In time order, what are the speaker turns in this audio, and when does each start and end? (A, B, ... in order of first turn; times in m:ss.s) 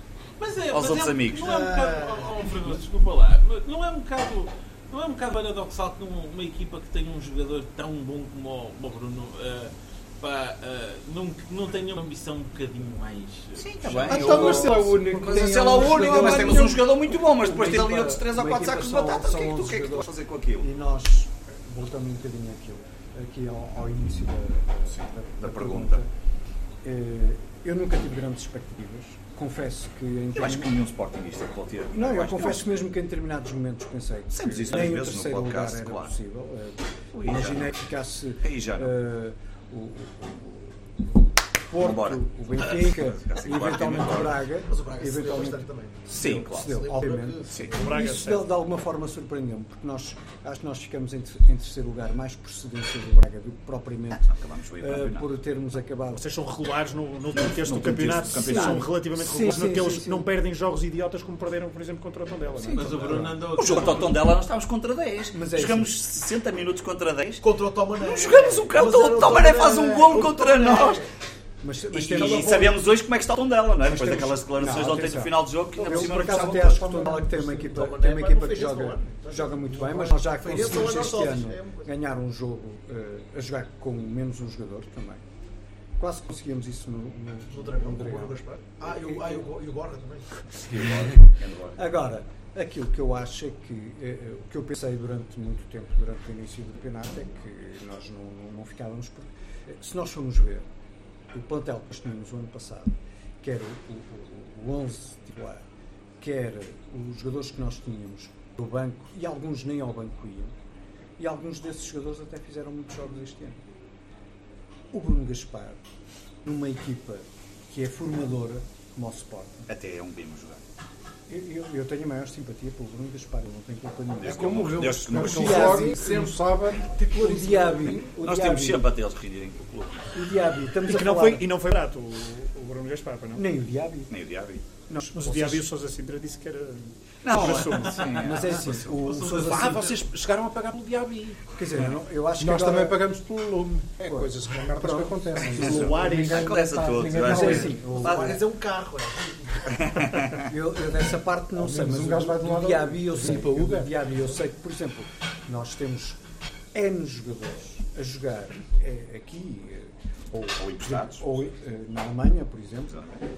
0:00.4-0:14.4 A
0:00.7-0:01.5 B
0:01.5-0:02.4 C
0:13.6-0:20.7 B
0:14.0-0:16.8 D
0:14.1-0:26.1 E
0:25.0-0:26.0 B
0:26.8-0:30.8 E
0:30.4-0:32.8 B
0:31.9-0:41.2 E
0:34.3-0:36.1 B
0:37.2-0:37.7 B
0:38.4-0:39.0 B
0:41.7-0:54.3 E
0:41.8-0:44.4 B
0:44.6-0:47.7 C
0:46.1-0:46.7 B
0:47.5-0:47.8 B
0:47.8-0:48.5 F
0:54.2-0:55.3 B
0:54.8-0:56.3 E
0:56.2-1:03.1 F
0:57.4-0:58.9 B
0:58.4-1:00.3 E
1:02.6-1:03.4 E
1:02.7-1:04.2 A
1:03.5-1:07.5 B
1:05.3-1:06.0 E
1:07.4-1:11.1 C
1:08.0-1:11.0 B
1:11.6-1:12.7 E
1:11.9-1:16.8 B
1:12.0-1:12.8 C
1:13.8-1:25.2 E
1:15.8-1:17.7 D
1:15.9-1:21.9 C
1:26.0-1:29.4 E
1:27.5-1:30.3 C
1:30.6-1:31.8 B
1:30.8-1:40.7 E
1:41.3-1:45.7 E
1:46.2-1:50.5 E
1:51.2-1:53.6 E
1:54.9-1:55.8 E
1:56.4-1:59.7 E
1:59.7-2:00.6 B
2:01.3-2:08.9 E
2:04.2-2:06.0 B
2:04.2-2:08.1 D
2:08.1-2:10.1 B
2:10.2-2:11.6 E
2:10.8-2:13.5 F
2:13.4-2:14.1 E
2:14.1-2:14.6 B
2:14.9-2:15.7 E
2:15.1-2:18.2 F
2:17.2-2:19.2 B
2:18.2-2:20.0 E
2:19.2-2:21.4 D
2:21.6-2:23.1 E
2:22.4-2:28.0 D
2:24.1-2:26.0 E
2:25.6-2:26.6 F
2:25.8-2:28.3 B
2:27.1-2:28.4 E
2:27.9-2:29.8 C
2:29.7-2:30.5 B
2:30.4-2:36.2 E
2:31.6-2:33.9 D
2:36.7-2:43.0 E
2:40.5-2:41.3 B
2:42.9-2:43.2 B